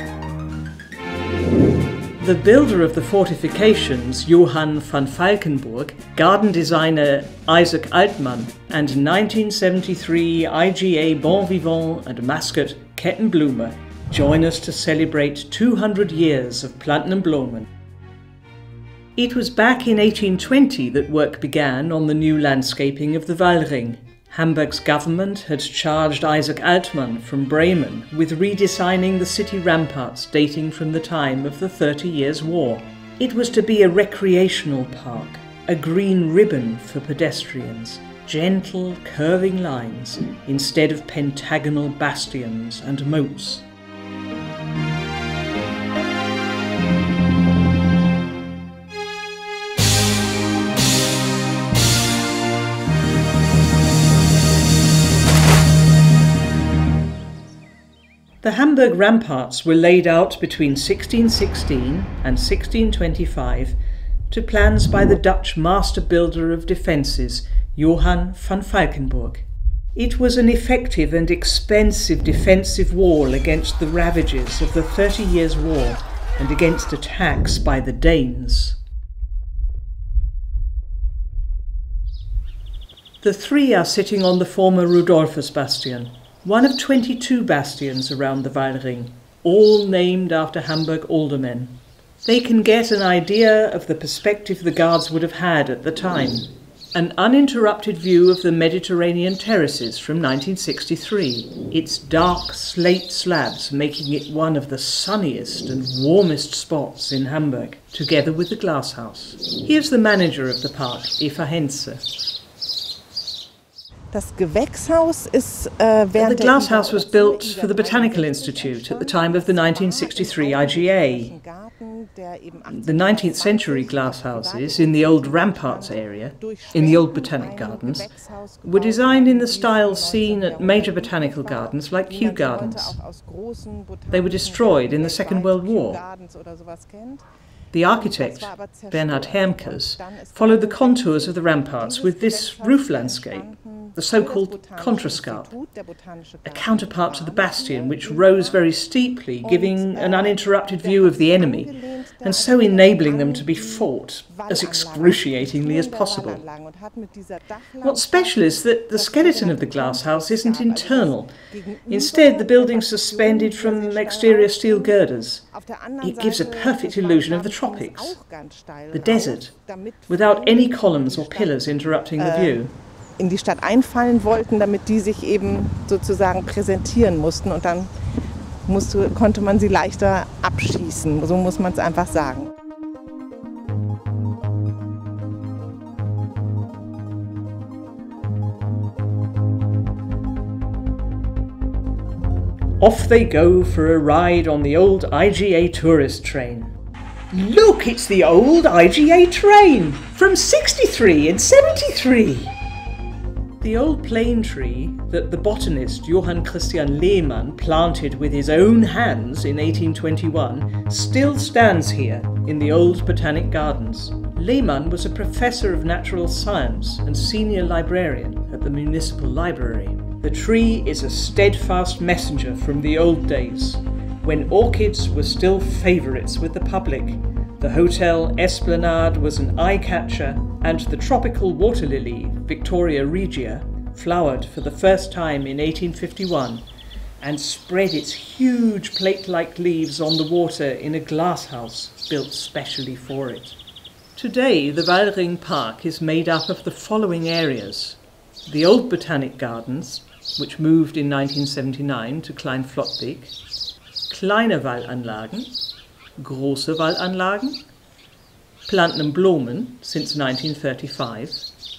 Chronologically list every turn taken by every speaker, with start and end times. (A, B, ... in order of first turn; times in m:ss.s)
0:02.2-0:17.7 A
0:19.2-0:43.7 A
0:58.4-1:03.8 A
1:04.3-1:18.8 A
1:23.2-1:52.0 A
1:54.1-2:17.2 B
1:56.1-2:01.3 A
2:02.7-2:08.1 A
2:08.6-2:13.0 A
2:14.1-2:16.0 A
2:17.7-2:25.5 A
2:17.9-2:28.6 B
2:26.4-2:36.4 A
2:29.4-2:45.0 B
2:37.8-2:41.3 A
2:41.8-2:45.4 A
2:45.5-2:51.7 B
2:46.0-2:48.1 A
2:48.9-2:49.5 A
2:50.1-2:52.7 A
2:52.2-2:52.6 B
2:53.2-2:57.9 B
2:58.7-3:02.5 B
3:12.8-3:16.7 A
3:17.3-3:22.6 A
3:23.6-3:56.6 A
3:57.2-4:03.6 A
4:04.1-4:13.3 A
4:14.1-4:15.5 A
4:16.2-4:17.6 A
4:18.7-4:21.5 A